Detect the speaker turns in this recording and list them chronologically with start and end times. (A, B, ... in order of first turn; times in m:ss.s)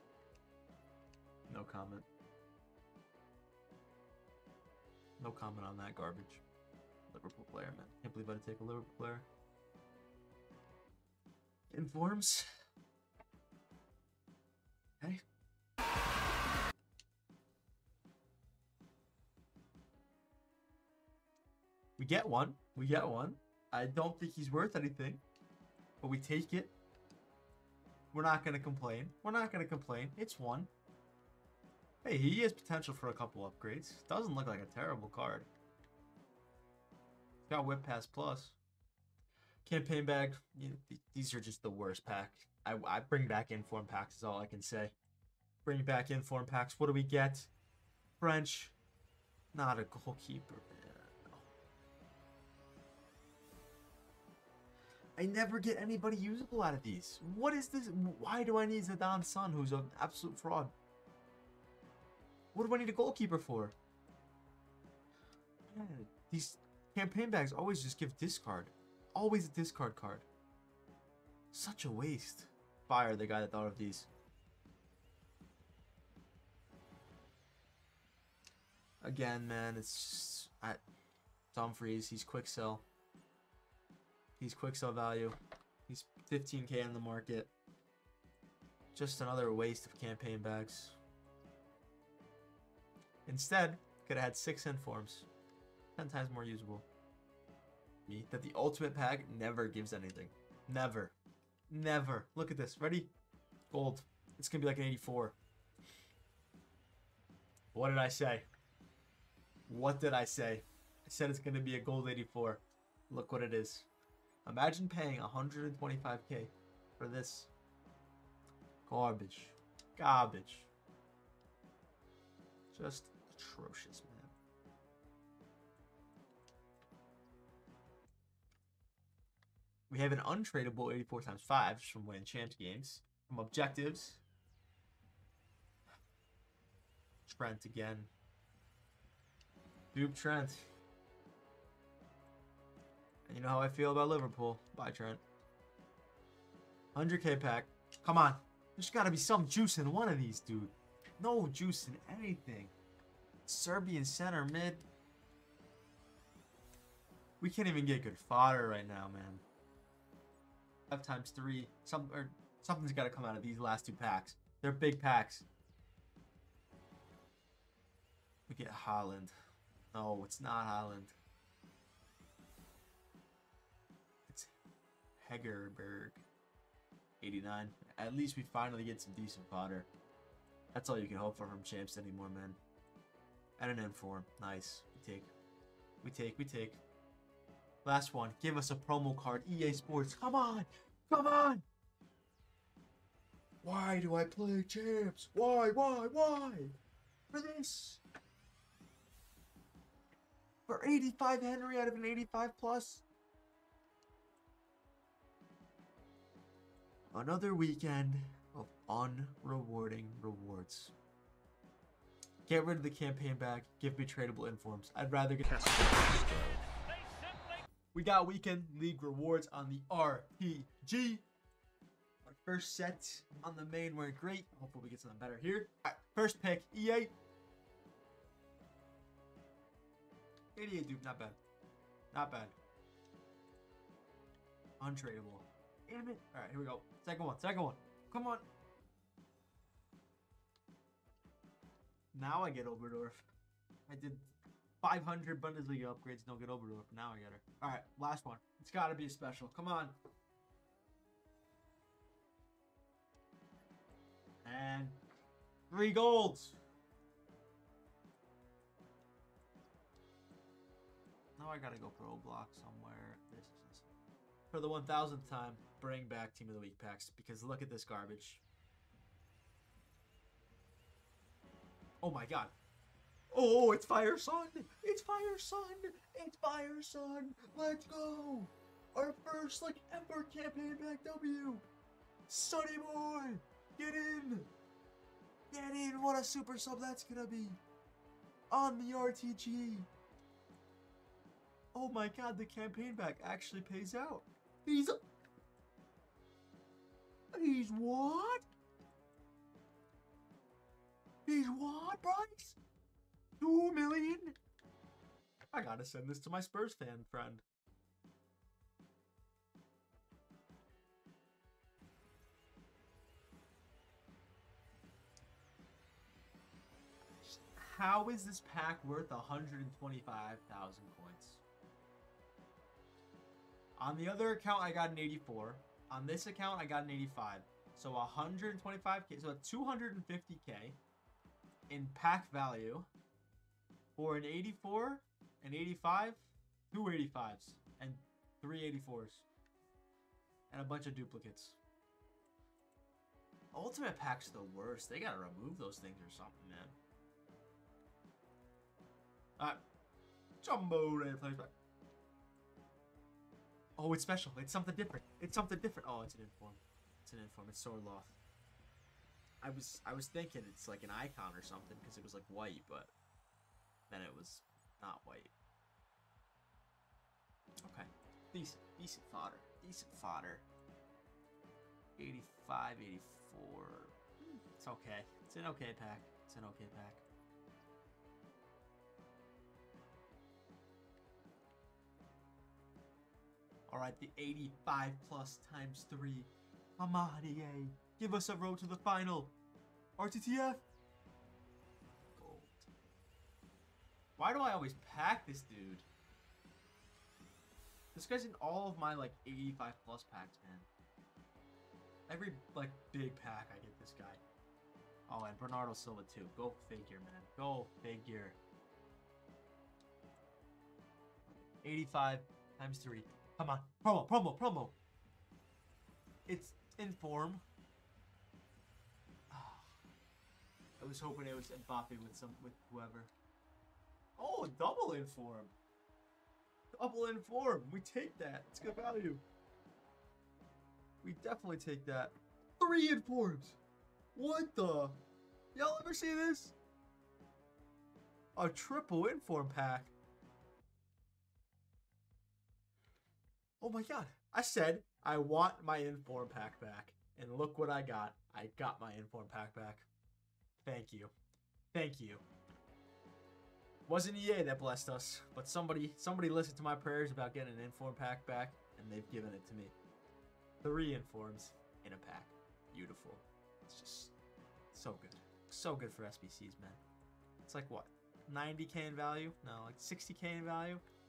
0:01.5-0:02.1 A
0:05.2-0:06.4 A
0:07.1-0:09.3 A
0:11.7-0:12.5 A
0:22.0-0:25.2 A
0:26.0-0:26.8 A
0:28.1-0:30.7 A
0:32.0-0:35.5 A
0:37.5-0:38.6 A
0:39.6-0:45.0 A
0:45.6-0:47.5 A
0:48.2-0:48.8 A
0:49.5-0:51.5 A
0:55.2-1:00.8 A
1:02.5-1:03.7 A
1:05.7-1:10.3 A
1:11.5-1:14.1 A
1:19.0-1:20.8 A
1:21.5-1:22.9 A
1:24.4-1:27.5 A
1:28.9-1:31.0 A
1:33.3-1:35.3 A
1:36.0-1:36.9 A
1:38.1-1:41.2 A
1:41.7-1:43.1 A
1:43.7-1:45.4 A
1:47.7-1:48.5 A
1:49.7-1:53.9 A
1:54.4-1:57.5 A
1:58.9-2:00.7 A
2:02.7-2:04.3 A
2:09.9-2:14.2 A
2:17.3-2:18.1 A
2:19.9-2:20.6 A
2:23.3-2:25.2 A
2:27.0-2:32.7 A
2:33.5-2:34.9 A
2:37.4-2:39.4 A
2:40.9-2:45.5 A
2:48.5-2:49.4 A
2:49.9-2:51.2 A
2:54.3-2:54.5 A
2:55.2-2:56.2 A
2:57.2-2:59.9 A
3:00.7-3:02.6 A
3:03.6-3:05.3 A
3:06.0-3:06.8 A
3:07.8-3:11.6 A
3:13.6-3:16.8 A
3:17.3-3:18.0 A
3:20.7-3:23.0 A
3:27.1-3:30.9 A
3:32.5-3:36.6 A
3:37.9-3:41.2 A
3:42.2-3:47.2 A
3:50.6-3:51.4 A
3:52.1-3:52.6 A
3:54.8-3:58.5 A
4:02.1-4:03.3 A
4:03.9-4:10.0 A
4:14.4-4:15.0 A
4:15.7-4:16.6 A
4:21.4-4:23.9 A
4:24.5-4:28.4 A
4:32.0-4:32.5 A
4:33.3-4:41.6 A
4:42.3-4:44.5 A
4:45.5-4:47.6 A
4:48.5-4:49.9 A
4:51.7-4:55.0 A
4:57.3-4:58.5 A
5:01.3-5:02.6 A
5:03.4-5:04.4 A
5:05.5-5:07.4 A
5:17.2-5:21.4 A
5:23.8-5:30.8 A
5:31.7-5:32.9 A
5:34.0-5:39.3 A
5:40.5-5:41.6 A
5:43.5-5:46.8 A
5:50.4-5:51.5 A
5:53.8-5:58.2 A
5:59.4-6:02.9 A
6:03.9-6:05.3 A
6:07.6-6:10.5 A
6:12.0-6:17.0 A
6:23.7-6:29.4 A
6:30.0-6:30.6 A
6:32.1-6:32.7 A
6:34.2-6:35.9 A
6:37.9-6:40.7 A
6:42.1-6:44.2 A
6:45.1-6:48.4 A
6:51.6-6:54.8 A
6:56.3-6:57.4 A
6:59.3-6:59.8 A
7:00.8-7:03.1 A
7:04.2-7:05.6 A
7:06.7-7:09.2 A
7:11.0-7:13.6 A
7:14.1-7:15.0 A
7:15.5-7:16.6 A
7:18.4-7:19.9 A
7:23.6-7:29.9 A
7:30.6-7:31.1 A
7:31.7-7:32.2 A
7:33.9-7:39.8 A
7:40.6-7:44.1 A
7:44.7-7:46.8 A
7:47.4-7:50.8 A